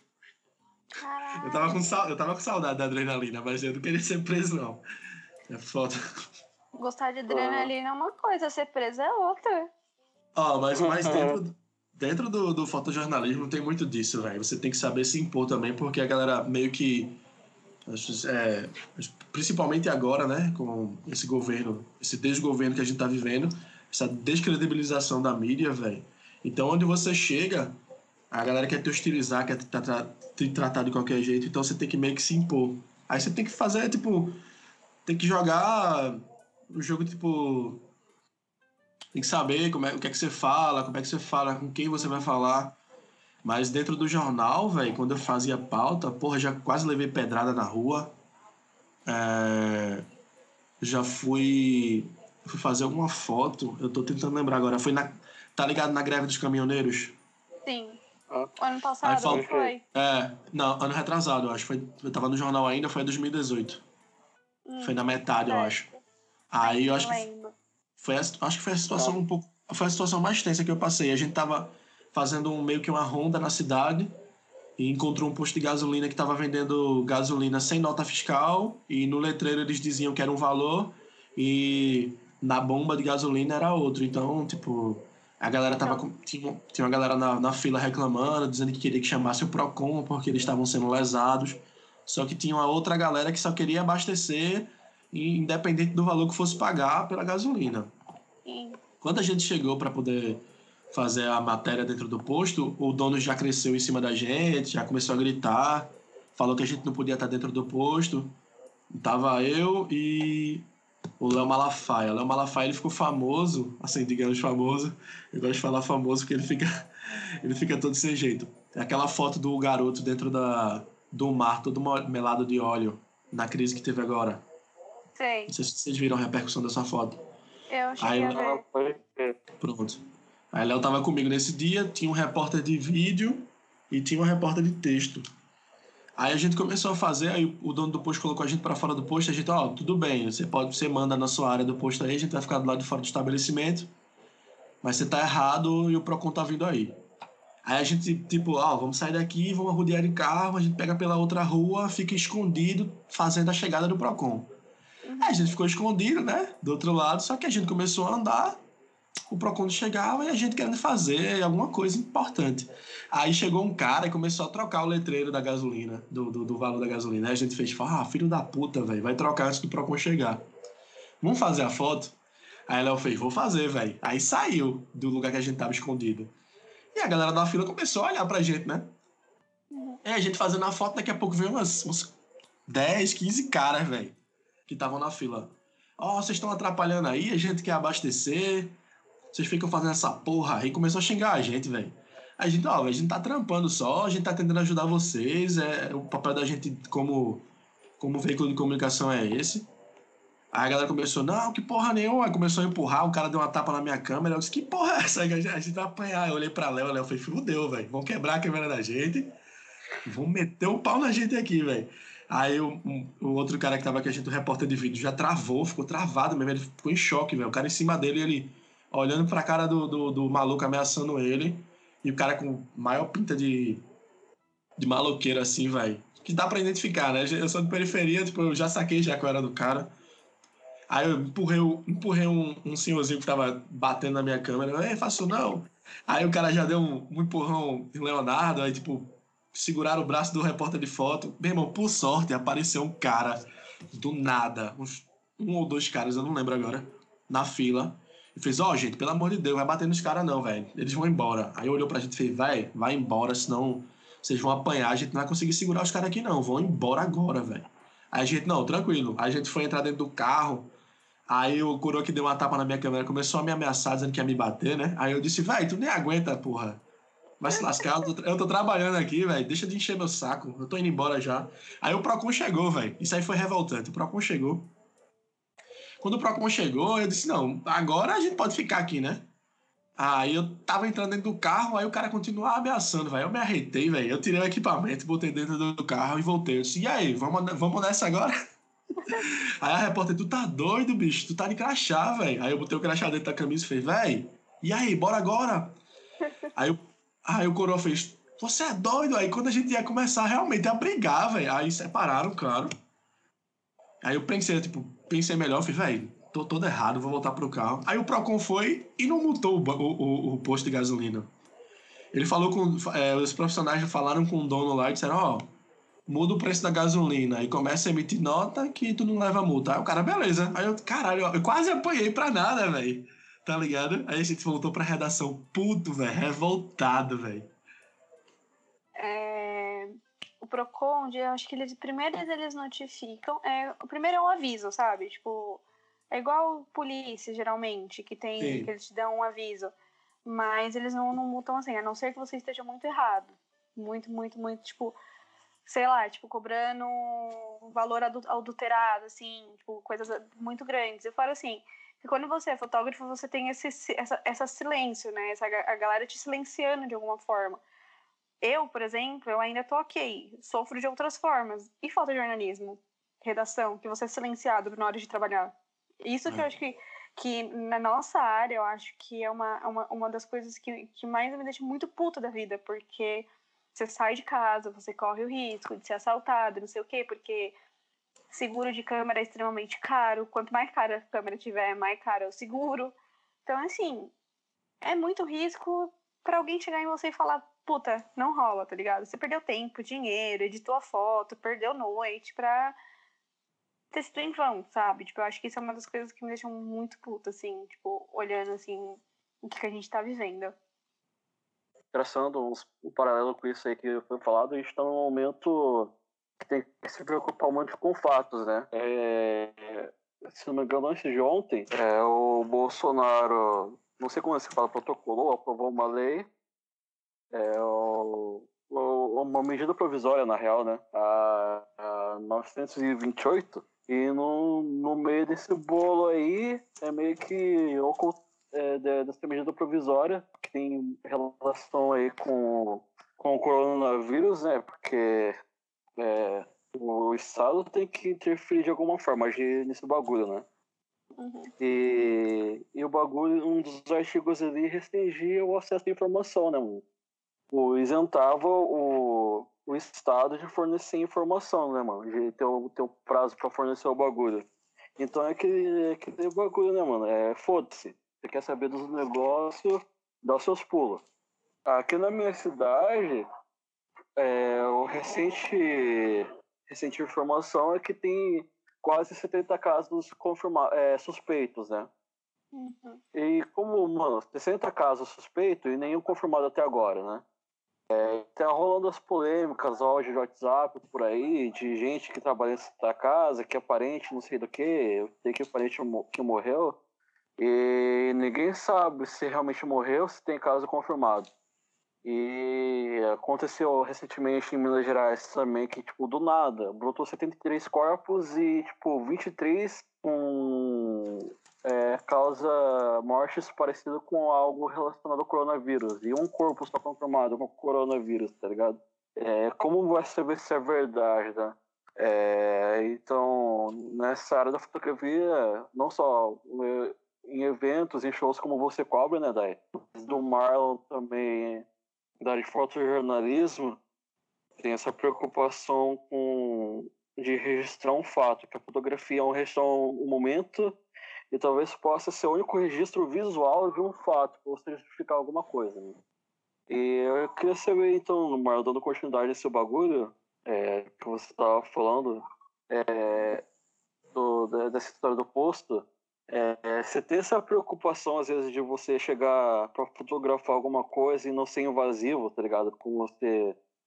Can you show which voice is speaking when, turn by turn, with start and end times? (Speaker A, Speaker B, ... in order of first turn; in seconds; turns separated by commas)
Speaker A: 1.0-1.9, Speaker B: 1.4-4.8, Speaker B: 5.5-6.0, Speaker A: 6.8-9.7, Speaker C: 7.3-7.7, Speaker B: 10.3-17.2, Speaker C: 10.7-11.4, Speaker B: 17.9-27.7, Speaker B: 28.3-34.4, Speaker B: 35.0-36.2, Speaker B: 36.7-37.9, Speaker B: 39.1-42.8, Speaker B: 43.4-48.1, Speaker B: 49.1-50.0, Speaker B: 50.8-57.1, Speaker A: 57.6-58.0, Speaker A: 58.6-59.8, Speaker B: 59.0-63.8, Speaker C: 59.2-59.7, Speaker A: 64.7-65.8, Speaker B: 64.8-65.9, Speaker B: 66.5-67.2, Speaker A: 66.6-67.5, Speaker B: 68.0-74.1, Speaker B: 74.8-97.9, Speaker A: 85.7-86.0, Speaker A: 98.5-98.8, Speaker B: 99.0-100.4, Speaker B: 100.9-108.3, Speaker B: 108.9-110.7, Speaker B: 111.2-116.7, Speaker B: 117.4-124.4, Speaker A: 125.2-125.5, Speaker B: 125.5-127.2, Speaker A: 127.7-128.6, Speaker B: 128.0-128.4, Speaker C: 128.2-129.3, Speaker B: 129.6-135.2, Speaker B: 136.2-143.9, Speaker B: 144.8-146.9, Speaker B: 147.6-154.5, Speaker A: 155.0-155.4, Speaker B: 155.2-158.6, Speaker B: 159.3-170.4, Speaker B: 171.2-172.1, Speaker B: 172.7-176.3, Speaker B: 176.9-178.9, Speaker A: 179.7-180.0, Speaker B: 180.0-182.1, Speaker B: 182.7-184.2, Speaker B: 184.7-188.8, Speaker B: 189.3-197.4, Speaker B: 198.0-199.7, Speaker B: 200.5-209.3, Speaker B: 210.0-223.8, Speaker B: 224.8-229.9, Speaker B: 230.9-243.4, Speaker B: 243.9-260.7, Speaker B: 261.3-266.8, Speaker B: 267.4-274.7, Speaker B: 276.0-279.2, Speaker B: 280.0-288.3, Speaker B: 289.1-295.8, Speaker B: 296.5-302.7, Speaker B: 304.0-311.3, Speaker B: 312.1-315.5, Speaker B: 316.1-327.5, Speaker A: 329.0-339.7, Speaker B: 338.4-338.7, Speaker A: 340.2-344.9, Speaker A: 345.6-357.6, Speaker A: 358.4-377.5, Speaker A: 378.3-382.9, Speaker A: 383.4-384.1, Speaker A: 384.8-392.8, Speaker A: 393.9-400.5, Speaker C: 401.9-416.3, Speaker C: 417.3-435.4, Speaker C: 436.0-440.4, Speaker A: 441.2-441.5, Speaker C: 441.6-446.8, Speaker C: 447.5-454.4, Speaker C: 455.0-461.0, Speaker C: 461.6-463.2, Speaker C: 464.2-471.9, Speaker A: 472.5-473.0, Speaker C: 473.1-477.2, Speaker C: 477.9-486.8, Speaker C: 487.4-491.3, Speaker C: 492.0-521.6, Speaker C: 522.2-523.8, Speaker C: 524.6-530.8, Speaker C: 531.3-536.0, Speaker C: 536.7-543.4, Speaker C: 544.1-553.5